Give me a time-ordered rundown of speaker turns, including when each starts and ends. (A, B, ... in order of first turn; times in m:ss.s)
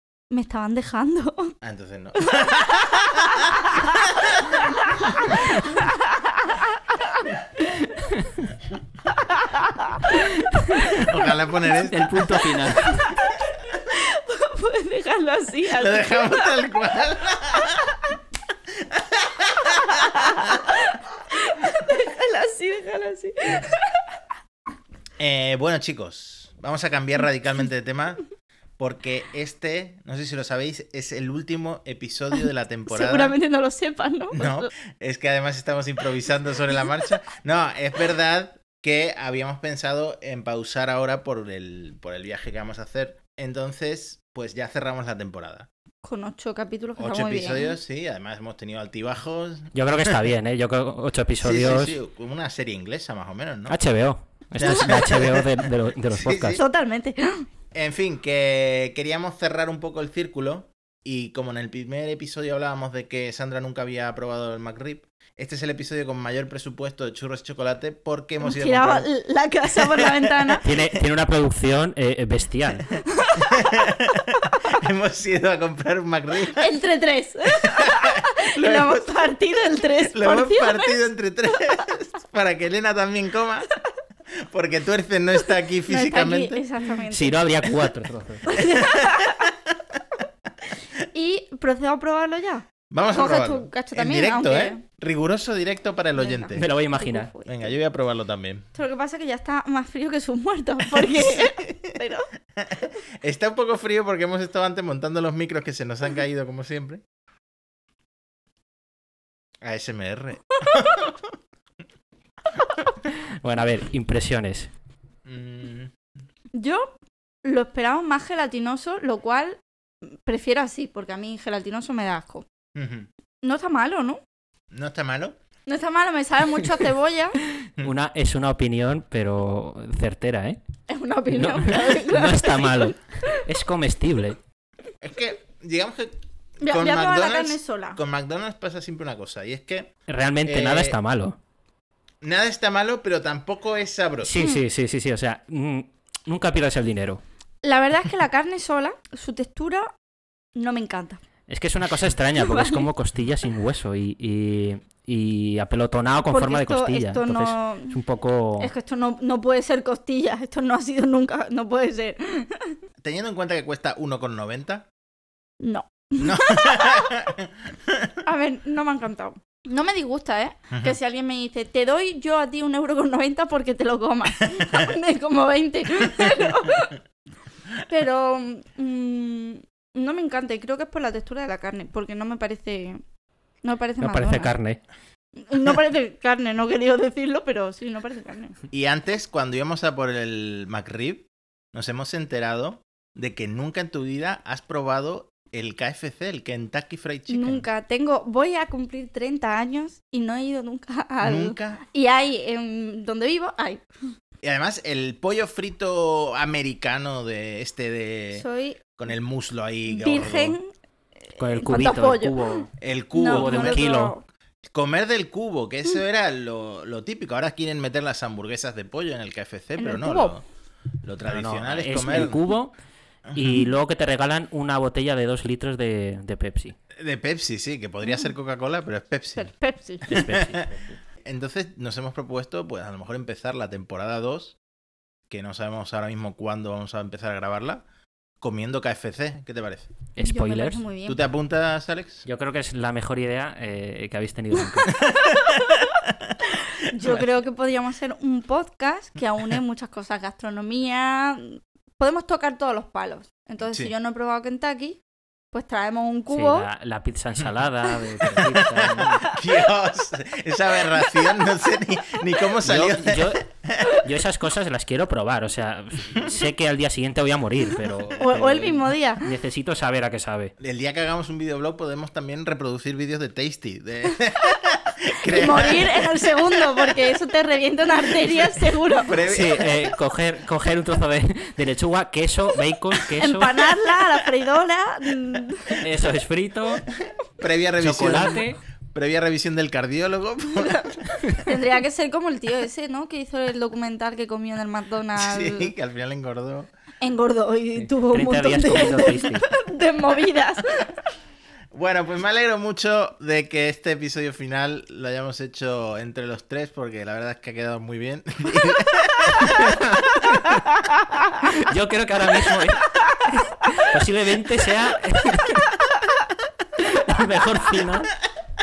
0:00.3-0:01.5 A
0:01.6-0:03.6 B
0:03.1-0:07.8 A
0:04.3-0:04.5 B
0:09.2-0:10.2 A
0:10.5-0:10.9 C
0:10.8-0:12.3 B
0:11.8-0:13.1 C
0:12.8-0:16.5 A
0:15.7-0:18.0 B
0:18.7-0:20.7 B
0:19.7-0:24.0 A
0:25.2-0:28.2 B
0:28.8-0:33.3 B
0:32.9-0:34.7 A
0:34.3-0:45.7 B
0:46.0-0:47.8 A
0:47.0-0:50.3 B
0:49.7-0:52.0 C
0:51.4-0:53.8 B
0:53.7-0:56.6 C
0:54.6-0:56.6 B
0:56.5-0:57.4 A
0:57.7-1:09.1 B
1:08.4-1:10.6 A
1:09.7-1:10.6 B
1:10.6-1:12.9 C
1:13.1-1:13.8 A
1:13.5-1:16.7 B
1:14.4-1:14.7 A
1:16.6-1:21.0 A
1:17.6-1:19.3 B
1:20.1-1:23.7 B
1:24.4-1:26.6 B
1:25.9-1:27.4 A
1:27.1-1:28.5 C
1:28.5-1:29.5 A
1:28.6-1:29.3 B
1:31.1-1:34.8 A
1:32.9-1:36.7 B
1:36.2-1:37.7 A
1:36.5-1:37.3 C
1:37.4-1:38.6 B
1:38.7-1:42.3 A
1:41.0-1:41.9 B
1:42.6-1:47.0 B
1:49.6-1:51.3 B
1:53.1-1:54.7 C
1:55.2-1:55.9 B
1:56.5-2:02.4 A
2:02.7-2:03.1 B
2:03.4-2:04.2 A
2:04.7-2:05.4 B
2:05.7-2:07.4 A
2:07.8-2:10.6 C
2:10.9-2:12.9 A
2:11.3-2:14.4 C
2:15.0-2:19.9 B
2:16.6-2:18.0 A
2:20.1-2:21.4 C
2:20.4-2:21.0 B
2:22.2-2:24.4 B
2:24.2-2:27.2 C
2:24.4-2:24.6 A
2:27.6-2:29.9 A
2:30.6-2:31.2 A
2:31.5-2:38.7 C
2:32.4-2:32.9 A
2:36.3-2:38.0 A
2:38.6-2:42.8 A
2:43.0-2:44.9 B
2:45.6-2:47.1 A
2:46.2-2:48.1 B
2:48.2-2:56.9 A
2:50.7-2:51.0 B
2:57.9-3:03.0 A
3:03.6-3:04.6 A
3:04.0-3:04.8 C
3:05.4-3:08.6 A
3:08.7-3:17.6 B
3:17.3-3:23.8 A
3:21.2-3:21.8 B
3:24.4-3:28.4 B
3:28.3-3:29.0 A
3:29.0-3:30.6 B
3:29.9-3:30.7 A
3:31.3-3:34.2 A
3:31.4-3:32.7 C
3:32.8-3:33.8 B
3:33.2-3:34.2 C
3:34.7-3:40.4 B
3:39.8-3:40.4 A
3:41.0-3:42.4 B
3:41.2-3:42.7 C
3:43.3-3:43.7 B
3:43.3-3:46.8 C
3:47.0-3:49.5 B
3:49.4-3:50.1 A
3:50.0-3:51.0 C
3:50.1-3:50.6 B
3:51.2-3:54.6 B
3:55.3-3:57.8 B
3:58.4-3:59.9 B
4:00.2-4:00.8 C
4:00.2-4:01.2 A
4:01.0-4:02.2 B
4:02.2-4:04.9 C
4:05.1-4:06.3 B
4:06.8-4:15.0 A
4:15.5-4:16.7 A
4:16.3-4:19.2 C
4:18.3-4:23.9 B
4:19.2-4:19.4 A
4:22.6-4:23.4 C
4:24.0-4:30.5 C
4:27.8-4:29.2 A
4:30.6-4:37.0 B
4:35.2-4:39.1 A
4:39.0-4:39.9 B
4:39.3-4:43.7 C
4:43.2-4:45.8 A
4:45.8-4:46.8 C
4:47.4-4:51.3 B
4:47.8-4:48.6 C
4:50.6-4:55.7 A
4:55.1-4:56.7 B
4:57.0-5:01.0 A
4:57.8-4:59.4 C
5:01.7-5:10.2 B
5:09.6-5:10.0 C
5:11.4-5:15.7 C
5:16.8-5:18.1 C